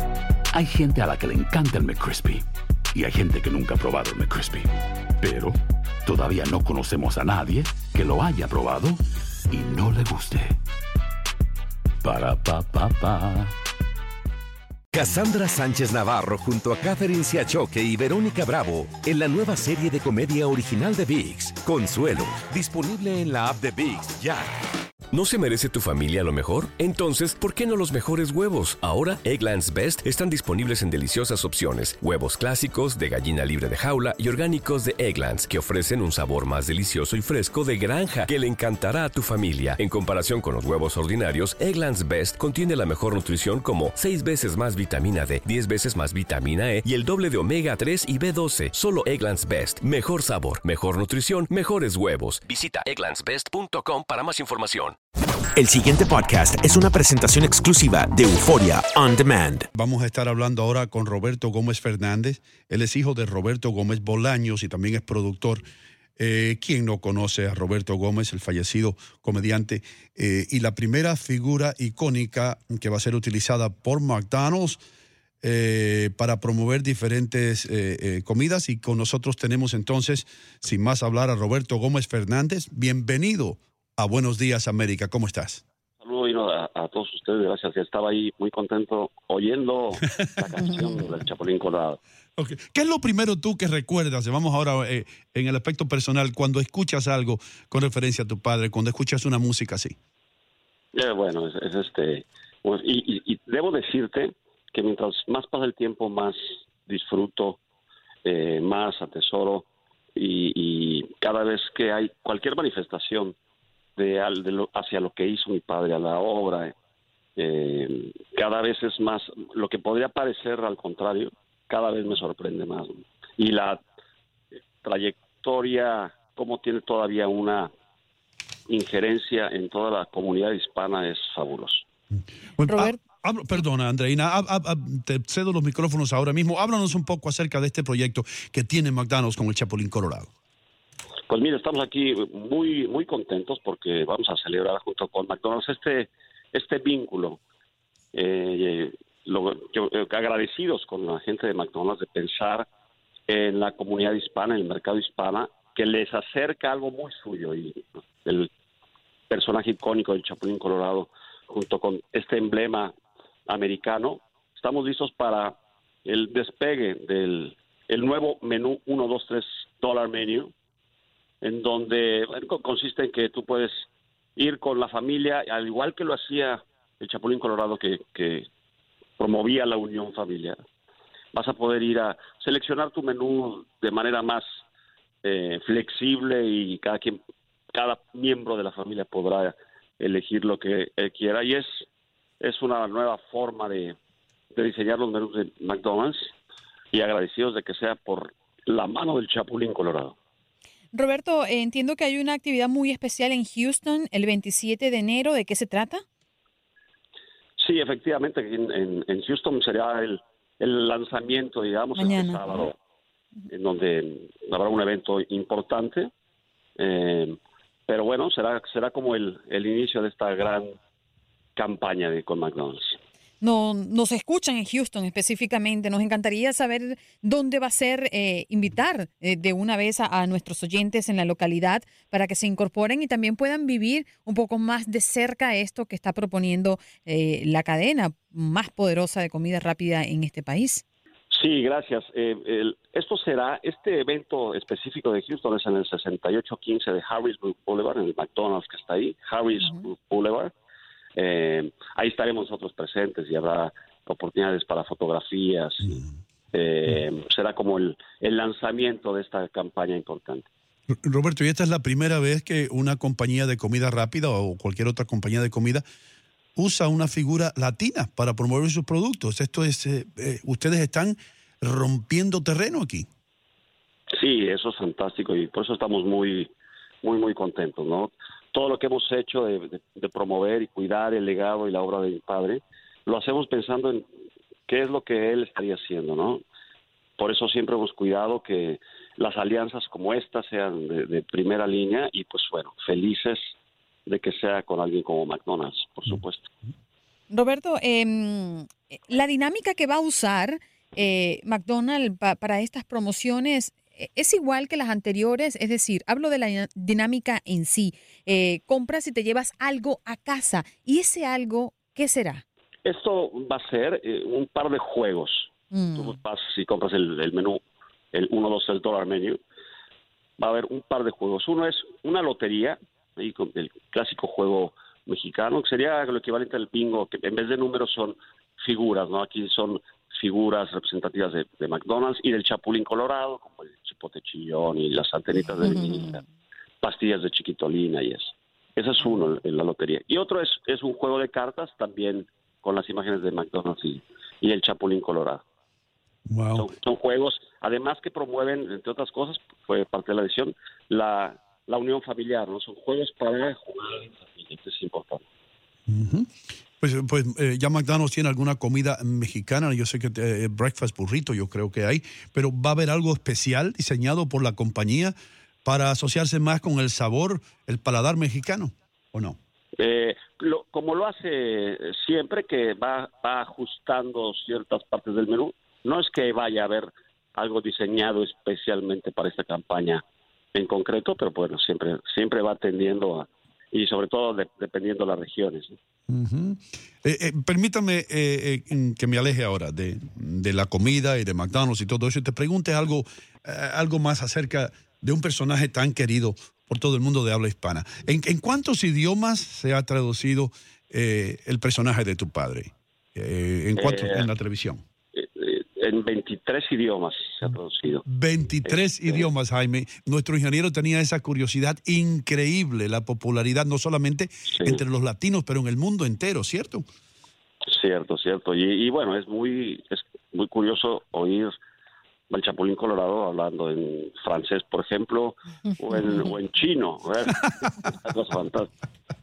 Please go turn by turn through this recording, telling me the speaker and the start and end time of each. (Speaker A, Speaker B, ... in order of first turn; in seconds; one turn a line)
Speaker A: 0.5-10.6
Speaker A: 12.0-13.6
Speaker B: 12.1-12.5
Speaker B: 14.9-24.5
Speaker C: 25.1-55.0
Speaker D: 55.6-59.7
Speaker E: 59.7-65.7
Speaker E: 66.2-74.8
Speaker E: 75.4-85.6
Speaker F: 86.0-92.0
Speaker E: 92.4-100.0
Speaker F: 100.9-107.6
Speaker F: 108.2-113.3
Speaker F: 114.0-116.7
Speaker F: 117.4-123.8
Speaker F: 124.8-127.7
Speaker F: 128.7-131.8
Speaker E: 132.6-140.3
Speaker F: 141.3-147.4
Speaker F: 148.1-152.7
Speaker F: 153.3-158.5
Speaker F: 159.3-162.9
Speaker F: 163.5-170.5
Speaker F: 171.4-173.8
Speaker F: 174.4-178.5
Speaker F: 179.2-180.6
Speaker F: 181.3-184.4
Speaker F: 185.2-187.2
Speaker F: 187.7-191.8
Speaker F: 192.4-194.0
Speaker F: 194.5-196.3
Speaker F: 196.9-200.2
Speaker G: 200.9-206.0
Speaker F: 207.6-212.8
Speaker G: 212.0-212.6
Speaker F: 213.5-216.1
Speaker F: 216.8-217.4
Speaker F: 217.9-220.8
Speaker F: 221.6-223.0
Speaker G: 223.4-240.8
Speaker F: 241.3-250.5
Speaker F: 251.2-260.5
Speaker E: 261.0-265.8
Speaker E: 266.6-273.1
Speaker F: 274.1-276.5
Speaker F: 277.0-284.1
Speaker F: 284.7-286.4
Speaker F: 287.2-293.4
Speaker F: 294.1-296.5
Speaker G: 297.3-312.4
Speaker F: 312.9-317.6
Speaker G: 315.7-316.1
Speaker F: 318.1-319.4
Speaker F: 320.4-336.2
Speaker G: 335.6-336.1
Speaker F: 336.8-345.4
Speaker E: 346.3-346.7
Speaker F: 346.6-355.2
Speaker E: 355.9-356.3
Speaker E: 356.8-365.1
Speaker E: 365.6-369.4
Speaker F: 369.8-380.0
Speaker F: 380.5-385.8
Speaker E: 386.1-404.8
Speaker F: 403.8-404.3
Speaker F: 405.1-408.0
Speaker E: 408.1-416.9
Speaker F: 408.6-409.3
Speaker F: 414.5-414.8
Speaker F: 417.7-421.5
Speaker F: 422.3-428.7